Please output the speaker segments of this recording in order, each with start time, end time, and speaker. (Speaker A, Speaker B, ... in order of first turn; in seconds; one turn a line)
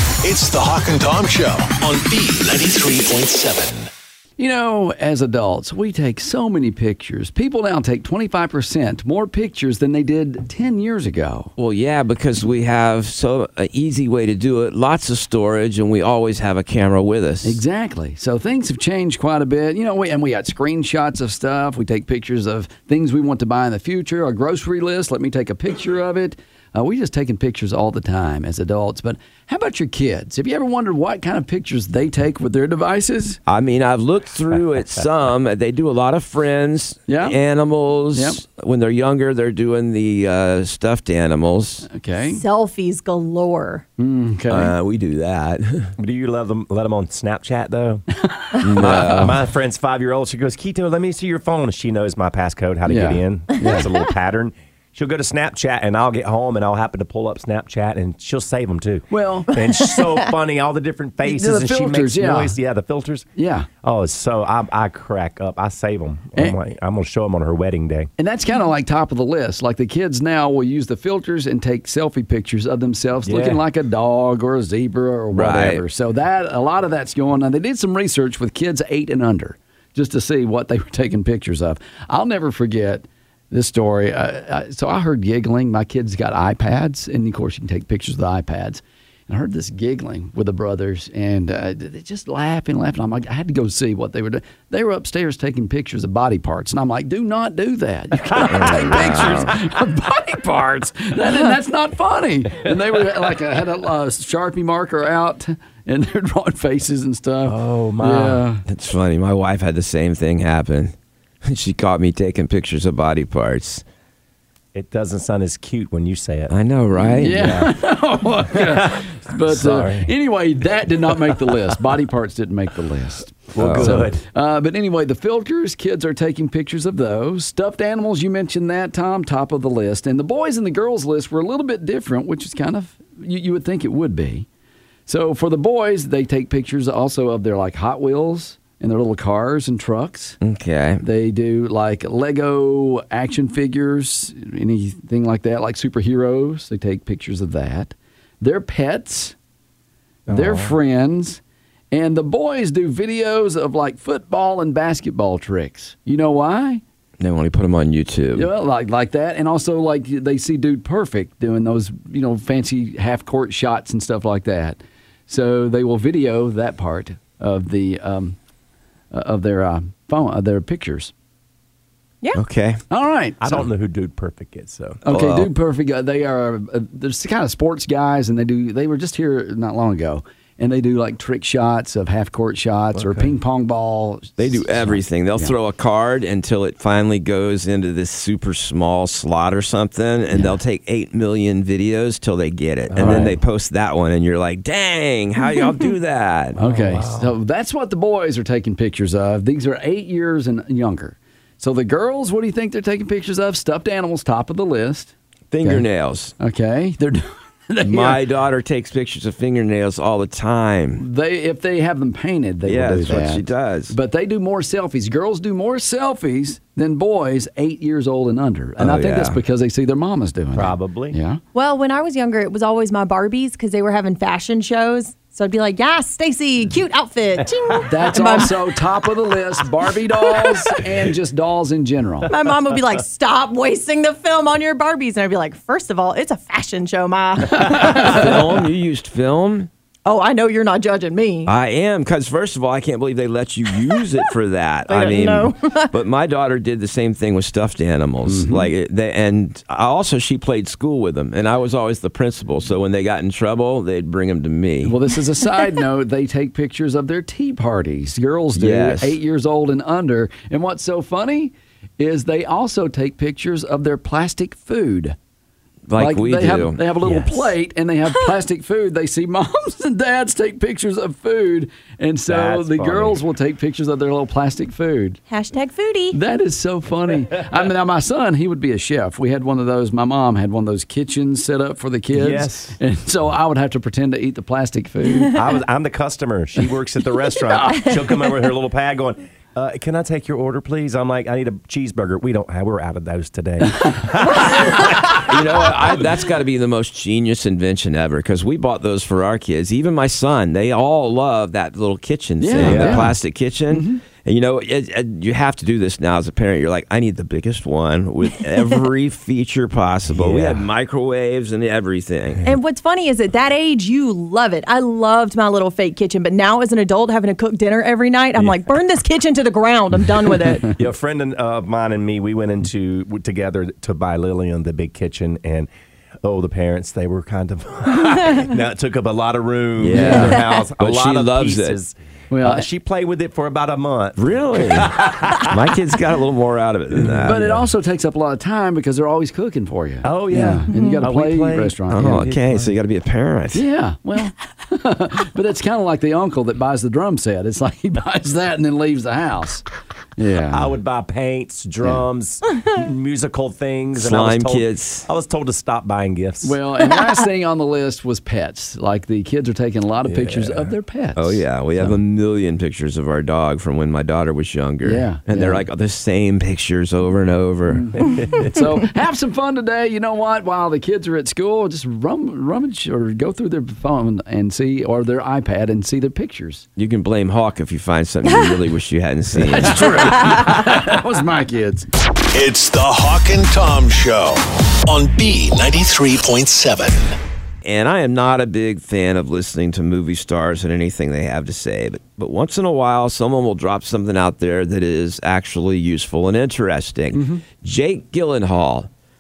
Speaker A: 0.2-3.9
Speaker B: 4.4-11.5
Speaker C: 11.6-17.6
Speaker B: 17.4-33.4
Speaker C: 33.5-41.9
Speaker B: 37.1-37.4
Speaker B: 38.1-38.4
Speaker B: 41.9-42.4
Speaker D: 42.3-43.8
Speaker B: 44.0-44.7
Speaker C: 44.5-45.9
Speaker E: 46.0-48.1
Speaker B: 48.2-49.0
Speaker C: 48.6-49.4
Speaker E: 48.8-63.3
Speaker B: 52.9-53.9
Speaker B: 59.1-59.6
Speaker B: 61.2-62.6
Speaker B: 63.4-63.7
Speaker E: 63.8-68.1
Speaker B: 68.2-108.6
Speaker E: 73.2-73.6
Speaker C: 75.3-75.8
Speaker E: 98.3-99.2
Speaker C: 98.5-99.6
Speaker E: 107.5-108.5
Speaker C: 108.7-113.8
Speaker E: 114.7-116.5
Speaker C: 116.5-117.6
Speaker E: 117.2-117.7
Speaker B: 117.2-134.5
Speaker E: 118.5-120.1
Speaker E: 121.3-121.6
Speaker E: 123.5-124.2
Speaker C: 123.6-124.1
Speaker B: 135.1-140.4
Speaker C: 140.4-141.0
Speaker B: 141.0-149.3
Speaker E: 150.3-150.8
Speaker B: 150.3-151.4
Speaker B: 151.9-156.8
Speaker C: 157.2-158.5
Speaker B: 158.3-168.4
Speaker B: 169.1-171.1
Speaker C: 172.3-172.8
Speaker B: 172.9-173.7
Speaker E: 173.4-175.0
Speaker B: 175.1-185.5
Speaker C: 175.1-175.5
Speaker E: 182.9-183.3
Speaker C: 184.4-196.6
Speaker B: 190.3-190.6
Speaker E: 192.9-193.4
Speaker B: 193.0-193.3
Speaker B: 196.6-205.1
Speaker E: 196.6-197.3
Speaker C: 205.5-206.3
Speaker B: 206.4-208.2
Speaker C: 207.8-211.0
Speaker B: 211.0-221.4
Speaker C: 212.7-213.9
Speaker C: 218.8-219.4
Speaker E: 220.5-221.2
Speaker D: 221.5-228.6
Speaker B: 227.8-232.3
Speaker D: 232.3-238.2
Speaker B: 237.6-238.4
Speaker C: 237.7-239.7
Speaker D: 240.1-241.5
Speaker C: 241.5-255.0
Speaker D: 244.9-245.9
Speaker B: 248.3-248.7
Speaker B: 254.8-265.2
Speaker C: 258.6-259.2
Speaker C: 265.9-267.3
Speaker B: 266.0-275.2
Speaker E: 272.3-273.2
Speaker D: 275.3-276.2
Speaker B: 276.1-285.4
Speaker E: 282.1-282.8
Speaker E: 285.3-296.0
Speaker C: 295.0-312.4
Speaker B: 302.4-303.1
Speaker E: 302.6-303.1
Speaker B: 303.7-304.0
Speaker E: 310.1-310.6
Speaker D: 312.4-320.7
Speaker E: 320.7-325.7
Speaker E: 326.2-335.7
Speaker C: 329.8-331.8
Speaker B: 329.9-330.4
Speaker B: 332.3-332.7
Speaker C: 334.2-337.4
Speaker E: 337.0-337.6
Speaker B: 337.2-342.3
Speaker E: 340.0-342.7
Speaker D: 340.7-341.0
Speaker C: 341.9-343.6
Speaker B: 343.5-349.6
Speaker B: 350.2-350.8
Speaker E: 350.5-356.6
Speaker C: 354.0-355.1
Speaker B: 356.4-362.0
Speaker E: 360.1-360.7
Speaker C: 361.2-368.1
Speaker B: 364.8-365.7
Speaker B: 367.7-376.7
Speaker E: 368.0-368.7
Speaker C: 376.8-380.5
Speaker B: 379.3-381.9
Speaker A: 382.3-387.2
Speaker C: 387.6-398.9
Speaker B: 397.1-397.4